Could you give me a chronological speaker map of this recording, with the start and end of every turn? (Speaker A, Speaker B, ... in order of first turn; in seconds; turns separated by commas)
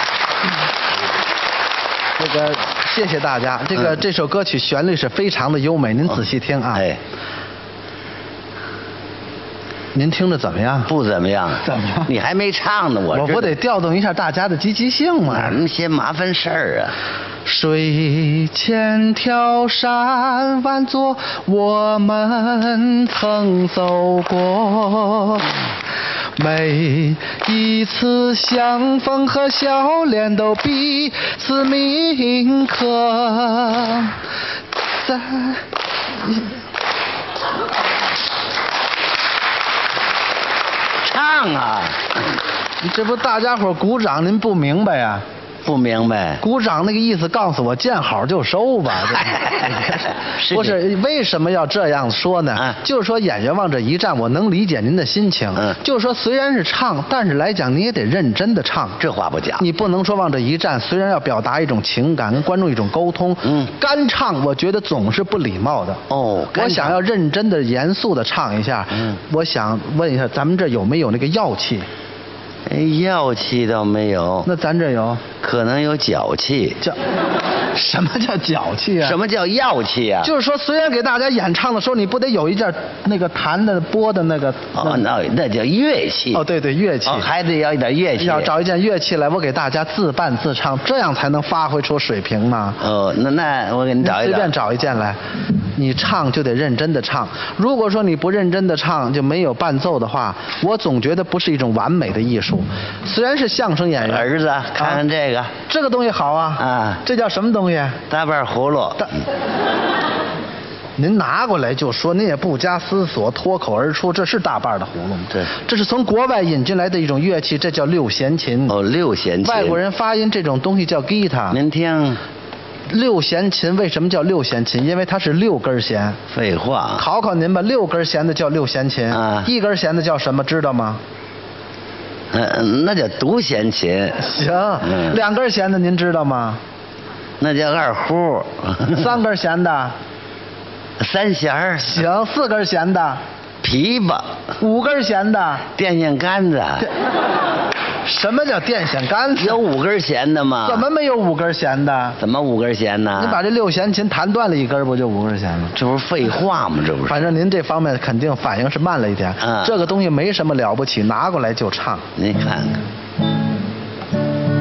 Speaker A: 2.2-6.8, Speaker B: 6.7-7.0, Speaker A: 9.9-10.9, Speaker B: 10.9-13.5, Speaker A: 11.6-12.1, Speaker A: 13.1-15.6, Speaker B: 15.3-16.9, Speaker A: 17.4-25.6, Speaker A: 26.4-34.2, Speaker A: 35.0-35.6, Speaker B: 41.0-42.2, Speaker A: 42.8-45.2, Speaker B: 45.6-46.4, Speaker A: 46.4-59.0, Speaker B: 49.2-50.8, Speaker B: 59.0-59.6, Speaker A: 59.6-71.9, Speaker B: 63.4-63.7, Speaker B: 66.1-67.0, Speaker B: 72.7-74.5, Speaker A: 74.4-75.2, Speaker B: 75.4-76.8, Speaker A: 77.7-79.2, Speaker B: 79.0-80.3, Speaker A: 80.2-85.0, Speaker B: 84.7-86.4, Speaker A: 86.3-87.3, Speaker B: 87.0-88.5, Speaker A: 88.2-92.8, Speaker B: 92.8-94.5, Speaker A: 94.0-95.2, Speaker A: 95.8-105.0, Speaker B: 104.0-105.5, Speaker A: 105.7-108.0, Speaker B: 106.6-107.0, Speaker B: 108.1-109.1, Speaker A: 111.0-118.8, Speaker B: 118.7-119.8, Speaker A: 119.4-121.6, Speaker B: 121.5-122.2, Speaker A: 122.9-126.2, Speaker B: 126.3-127.0, Speaker A: 127.0-131.0, Speaker B: 129.1-129.5, Speaker B: 132.3-134.3, Speaker A: 134.2-136.6, Speaker B: 134.8-135.2, Speaker B: 137.4-139.1, Speaker A: 138.9-139.9, Speaker B: 141.0-142.0, Speaker A: 141.8-143.2, Speaker B: 143.6-144.3, Speaker A: 144.6-145.6, Speaker B: 145.7-146.9, Speaker A: 148.1-149.6, Speaker B: 149.4-150.9, Speaker A: 150.6-152.2, Speaker B: 152.2-153.4, Speaker A: 153.2-155.7, Speaker B: 155.7-157.2, Speaker A: 157.1-162.0, Speaker B: 159.4-159.8, Speaker B: 162.2-162.8